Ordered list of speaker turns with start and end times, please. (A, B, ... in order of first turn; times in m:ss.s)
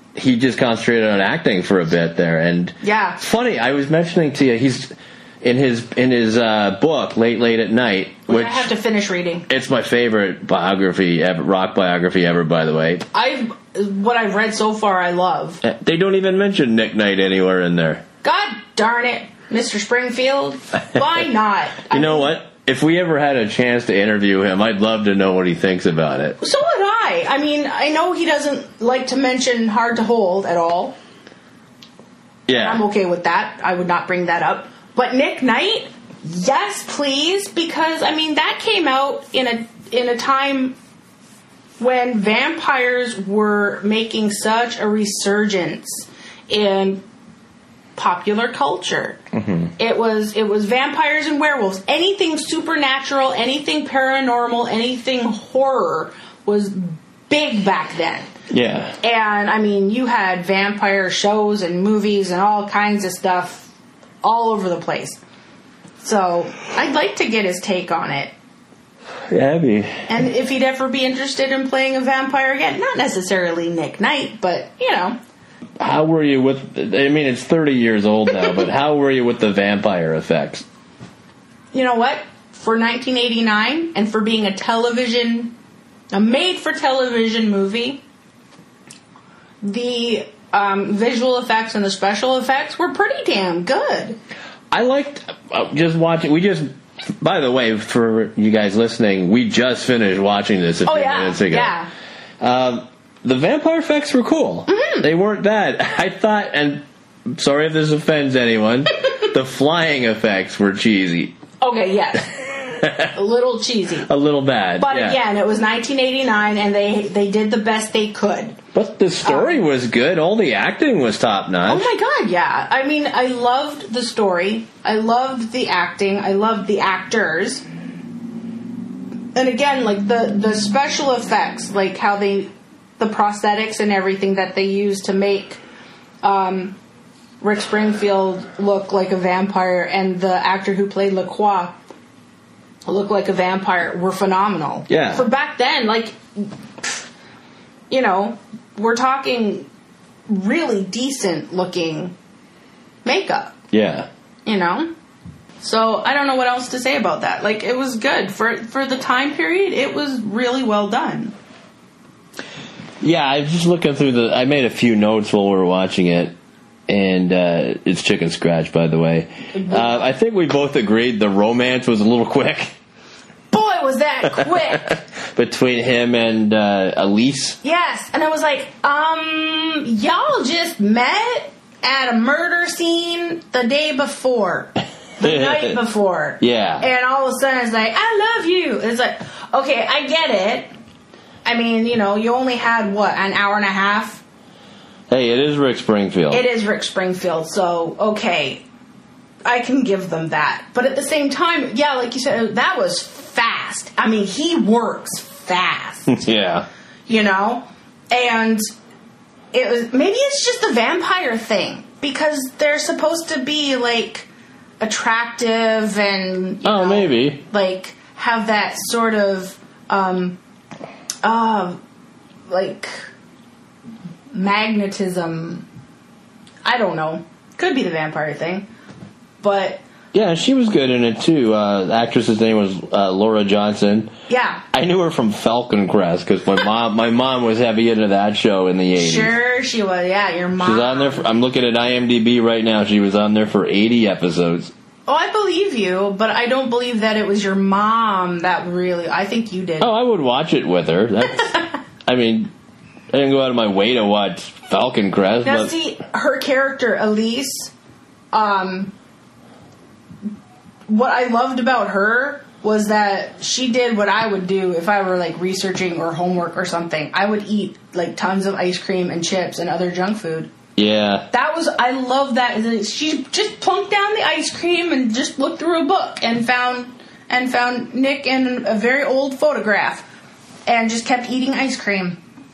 0:00.1-0:08.7 A
0:02.8-0:03.2 B
0:08.3-0:09.5 B
0:09.5-0:13.0 A
0:13.1-0:15.6 B
0:15.6-0:18.0 A
0:18.2-0:22.3 B
0:21.9-0:26.4 A
0:26.4-0:31.0 B
0:32.5-0:32.8 A
0:32.5-0:40.8 B
0:41.8-0:47.0 B
0:48.0-0:49.2 B
0:49.3-0:49.7 A
0:49.8-0:58.3 B
0:58.5-0:59.0 A
0:59.0-1:03.7 B
1:04.2-1:05.2 B
1:06.0-1:08.3 B
1:09.3-1:10.1 A
1:10.1-1:15.2 B
1:15.8-1:20.6 A
1:21.7-1:25.5 B
1:26.1-1:28.0 B
1:29.6-1:34.2 B
1:34.7-1:41.7 A
1:40.8-1:41.9 B
1:42.4-1:51.3 A
1:44.7-1:45.1 B
1:51.6-1:54.1 B
1:52.8-1:53.1 A
1:54.0-1:55.2 A
1:54.8-1:58.6 B
1:58.7-2:01.9 A
1:59.2-1:59.6 B
2:01.6-2:07.6 B
2:09.3-2:15.6 B
2:16.2-2:16.8 B
2:17.4-2:21.8 B
2:22.8-2:27.1 B
2:24.9-2:25.3 A
2:27.9-2:29.7 B
2:30.3-2:32.1 B
2:33.0-2:33.6 B
2:33.7-2:34.1 A
2:34.4-2:34.9 B
2:35.6-2:41.4 B
2:43.0-2:46.3 A
2:46.9-2:52.7 A
2:49.5-2:50.1 B
2:53.5-2:54.9 B
2:54.7-2:57.6 A
2:57.6-3:10.7 B
3:05.2-3:05.8 A
3:06.4-3:06.8 A
3:11.4-3:14.2 B
3:15.1-3:16.4 A
3:16.3-3:18.6 B
3:19.4-3:26.2 B
3:26.1-3:26.7 A
3:27.1-3:28.6 B
3:29.5-3:34.3 B
3:34.8-3:40.4 B
3:36.6-3:37.4 A
3:41.2-3:41.8 B
3:42.5-3:43.1 B
3:44.3-3:45.6 B
3:46.6-3:48.7 B
3:49.4-3:49.8 B
3:50.1-3:54.1 A
3:54.3-3:54.6 B
3:54.7-3:59.3 A
3:59.0-4:01.3 B
4:00.6-4:04.7 A
4:05.1-4:09.9 B
4:09.8-4:12.5 A
4:13.1-4:15.7 A
4:15.4-4:17.7 B
4:18.3-4:18.9 B
4:20.9-4:30.5 B
4:30.8-4:31.3 A
4:31.3-4:40.1 B
4:40.6-4:42.2 B